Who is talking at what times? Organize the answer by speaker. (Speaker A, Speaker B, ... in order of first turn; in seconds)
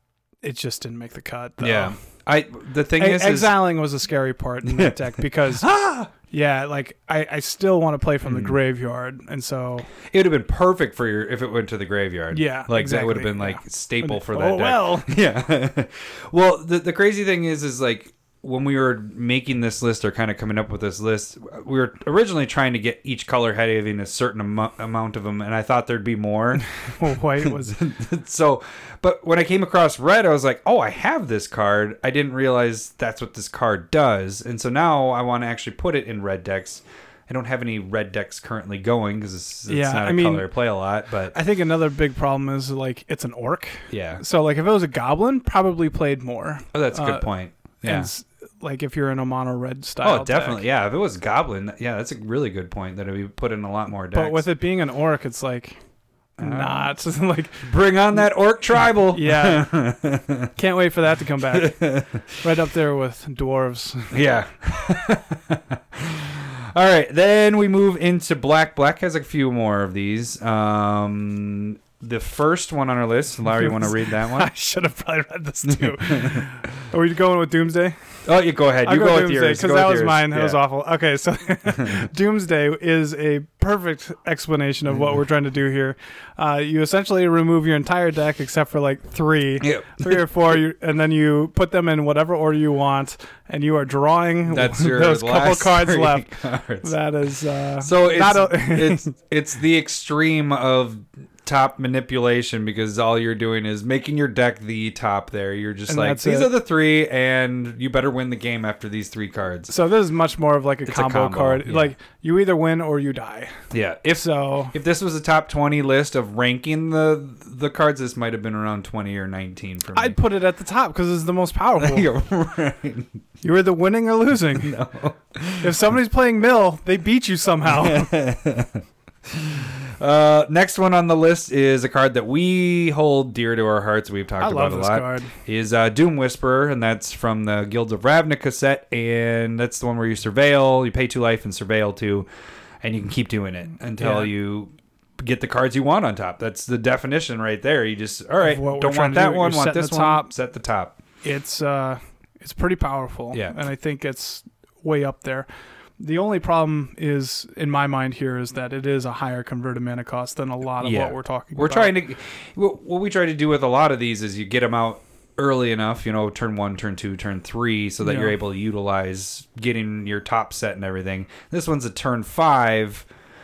Speaker A: 0.4-2.0, 3.0-5.7, 6.2-9.9, 12.3-15.1, 26.6-27.8, 39.7-40.5, 41.3-47.3, 47.8-50.6, 54.1-55.8, 56.4-57.7, 59.1-59.7, 60.6-64.2, 73.6-78.0, 78.8-96.3, 96.8-99.1, 105.9-106.5, 109.7-113.5, 114.2-114.8, 119.9-122.1, 123.4-124.8, 125.6-128.1, 134.4-135.3, 144.0-144.3, 148.4-150.3, 151.2-155.5, 156.0-161.9, 168.0-168.3
Speaker B: 1.6-3.6, 4.7-5.0, 5.6-6.1, 8.2-8.6, 10.1-26.7, 27.4-41.4, 43.9-44.2, 46.7-48.1, 50.0-54.5, 56.4-56.9, 57.6-60.5, 61.5-62.3, 64.1-74.5, 75.7-76.5, 78.2-80.6, 89.6-90.2, 94.5-96.9, 97.8-109.7, 110.9-111.9, 113.7-120.2, 121.8-123.2, 124.6-125.8, 127.7-142.3, 142.8-151.0, 160.8-173.1